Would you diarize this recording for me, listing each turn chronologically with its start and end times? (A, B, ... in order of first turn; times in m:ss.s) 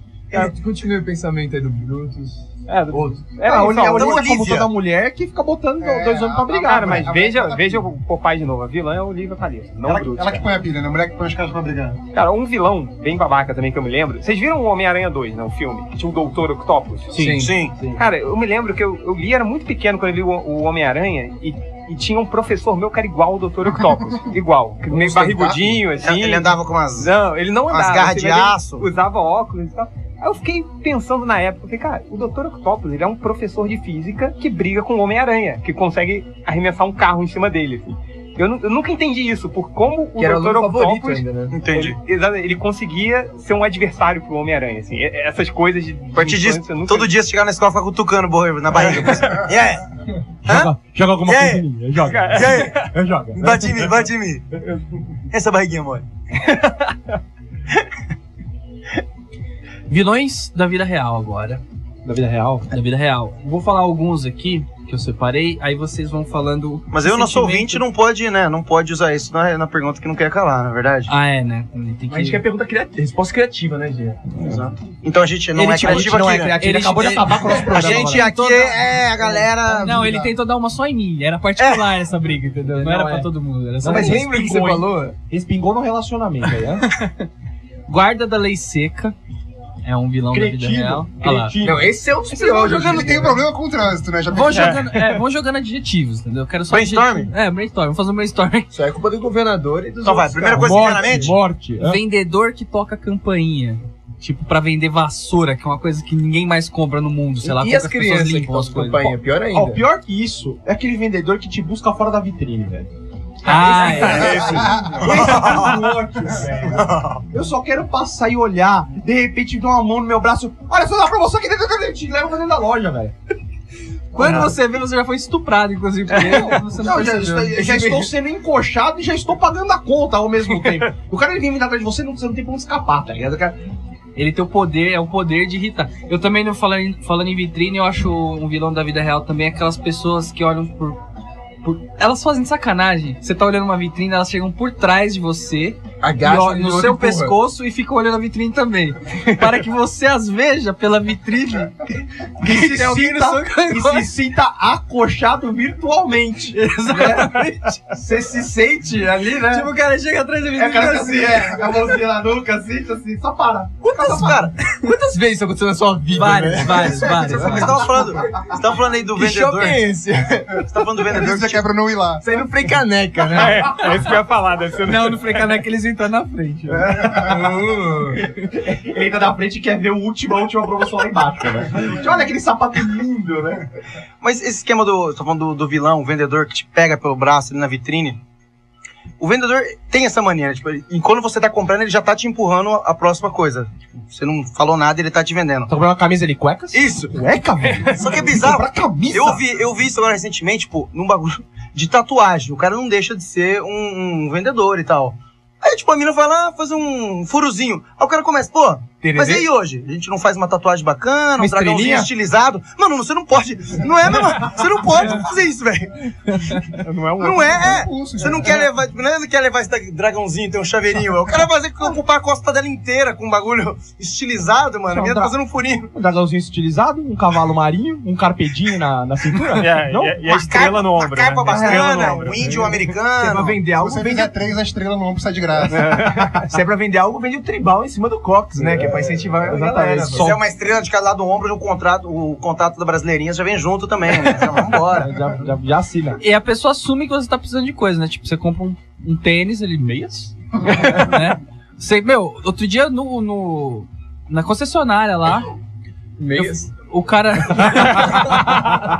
0:00.3-0:03.3 A
0:02.7-0:04.2 B
0:03.4-0:07.1 C
0:03.9-0:04.7 D
0:05.8-0:07.9 E
0:06.6-0:10.4 B
0:09.8-0:12.0 E
0:12.1-0:17.2 B
0:17.1-0:17.5 F
0:17.4-0:17.7 D
0:18.0-0:47.1 B
0:24.9-0:25.8 E
0:26.0-0:27.1 D
0:27.7-0:28.8 D
0:40.2-0:41.6 A
0:41.5-0:42.0 D
0:46.1-0:49.8 D
0:49.0-0:49.3 B
0:50.4-0:50.7 D
0:50.4-0:53.9 C
0:51.2-0:51.6 D
0:52.1-0:52.9 B
0:52.3-0:52.8 D
0:53.3-0:54.4 D
0:55.3-0:56.0 D
0:56.4-0:57.0 B
0:59.9-1:01.6 F
1:02.0-1:02.7 C
1:02.7-1:07.8 F
1:06.9-1:11.1 D
1:11.1-1:12.4 F
1:12.1-1:14.3 A
1:14.4-1:16.6 D
1:15.5-1:18.3 C
1:15.8-1:18.8 F
1:17.6-1:20.2 D
1:19.6-1:24.3 F
1:19.9-1:20.3 E
1:22.7-1:23.3 C
1:23.8-1:26.9 C
1:23.8-1:25.1 A
1:27.9-1:29.1 F
1:29.8-1:31.5 F
1:30.3-1:33.4 C
1:31.6-1:33.3 A
1:32.6-1:34.8 E
1:34.3-1:38.7 F
1:34.5-1:34.8 B
1:36.7-1:37.3 D
1:38.7-1:41.3 A
1:40.0-1:41.3 D
1:40.5-1:42.0 C
1:41.8-1:49.2 F
1:47.4-1:49.8 A
1:49.5-1:52.9 C
1:53.4-1:54.6 F
1:53.4-2:03.1 C
1:53.6-1:55.6 B
1:54.0-1:55.3 E
1:55.1-1:55.8 D
1:56.2-1:56.6 E
1:56.7-1:57.2 D
2:04.1-2:07.7 F
2:06.2-2:13.6 C
2:07.6-2:08.1 A
2:14.2-2:21.0 F
2:21.6-2:31.7 F
2:26.0-2:27.4 A
2:32.4-2:39.7 C
2:32.4-2:34.1 F
2:36.5-2:37.8 F
2:39.5-2:41.6 F
2:40.5-2:44.5 C
2:43.8-2:44.5 D
2:44.8-2:48.4 A
2:46.1-2:47.8 F
2:47.1-2:49.9 D
2:49.1-2:50.7 A
2:50.7-2:51.6 D
2:51.0-2:52.2 E
2:52.2-2:53.7 A
2:53.3-2:55.4 B
2:54.8-2:57.0 F
2:56.9-2:57.4 C
2:57.0-2:58.2 A
2:58.4-3:03.6 C
3:04.2-3:08.2 D
3:09.2-3:15.7 D
3:15.7-3:19.4 C
3:16.7-3:17.2 D
3:17.8-3:36.4 D
3:29.0-3:29.5 A
3:31.4-3:32.1 C
3:36.7-3:37.8 B
3:37.2-3:45.9 D
3:37.2-3:38.7 E
3:44.9-3:45.3 C
3:45.9-3:50.2 C
3:49.6-3:52.7 B
3:50.2-3:53.6 D
3:51.5-3:54.3 A
3:53.7-3:56.2 E
3:55.7-3:56.3 B
3:56.3-4:00.3 A
3:58.5-4:00.4 C
4:00.1-4:05.1 D
4:04.9-4:06.2 C
4:06.2-4:15.5 F
4:16.2-4:16.7 A
4:16.3-4:18.6 F